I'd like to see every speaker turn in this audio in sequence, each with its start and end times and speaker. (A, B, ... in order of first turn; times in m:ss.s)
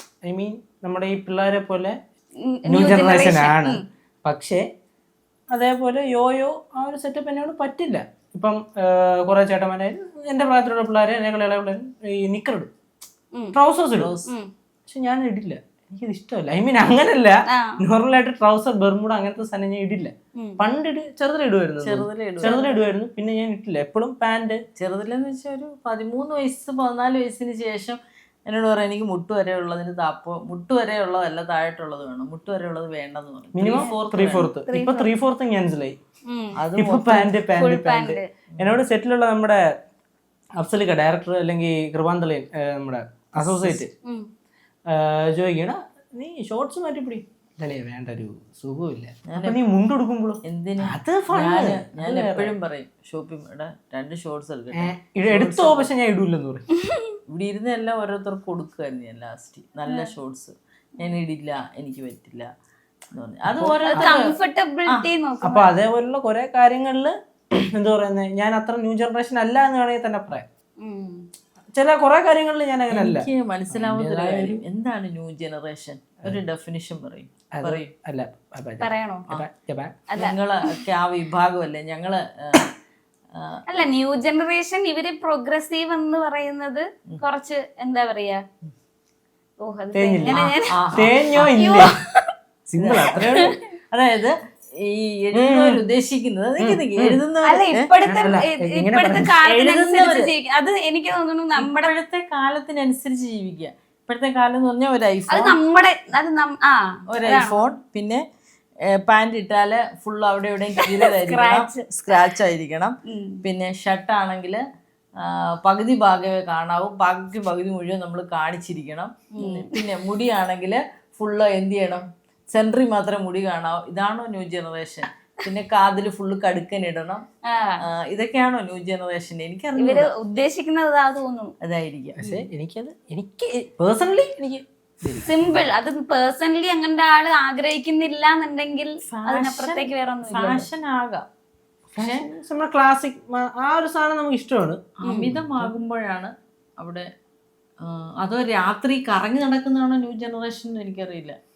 0:00.2-0:02.0 A
0:02.4-0:03.8 B
0:02.7-0:04.6 A
0:05.5-0:12.7 A
0:13.5-0:14.1 A
0:14.0-0:14.3 C
0:14.9-0:24.6 A
0:17.5-0:17.8 B
0:20.4-0:20.6 B
0:21.8-0:22.6 C
0:22.4-0:22.8 B
0:24.8-0:34.5 C
0:33.5-0:36.0 A
0:34.7-0:35.1 B
0:36.3-0:36.6 B
0:36.6-0:37.4 C
0:36.7-0:39.6 A
0:37.6-0:38.3 B
0:38.5-0:38.8 C
0:40.6-0:43.9 A
0:43.4-0:43.8 C
0:44.9-0:52.5 A
0:49.3-0:49.6 C
0:50.4-0:55.9 C
0:54.7-0:56.6 A
0:56.8-0:57.1 B
0:57.3-1:02.5 C
1:03.1-1:04.3 C
1:03.4-1:04.1 A
1:03.9-1:05.7 B
1:05.4-1:10.4 A
1:10.8-1:11.2 B
1:11.7-1:14.6 A
1:12.9-1:17.9 C
1:17.5-1:20.0 A
1:18.8-1:19.3 B
1:20.1-1:20.8 B
1:20.2-1:22.7 C
1:23.4-1:23.8 C
1:23.7-1:28.4 B
1:29.6-1:30.8 B
1:29.9-1:31.9 A
1:30.2-1:31.5 C
1:31.4-1:32.2 B
1:32.7-1:33.5 A
1:32.8-1:37.9 C
1:35.3-1:35.8 A
1:36.6-1:37.2 A
1:37.4-1:41.9 B
1:38.0-1:39.3 A
1:39.4-1:40.3 C
1:41.6-1:45.6 C
1:45.3-1:47.7 B
1:47.1-1:48.2 C
1:49.0-1:54.6 C
1:50.9-1:51.8 B
1:53.1-1:53.4 B
1:55.2-2:07.2 C
1:59.3-1:59.7 B
2:07.5-2:07.8 B
2:07.9-2:10.1 C
2:09.8-2:11.5 B
2:11.6-2:12.3 C
2:12.2-2:15.3 A
2:15.2-2:20.7 B
2:19.1-2:21.2 C
2:21.9-2:24.8 A
2:22.0-2:22.2 C
2:25.0-2:27.1 C
2:25.0-2:25.3 B
2:25.4-2:25.7 A
2:27.8-2:31.4 C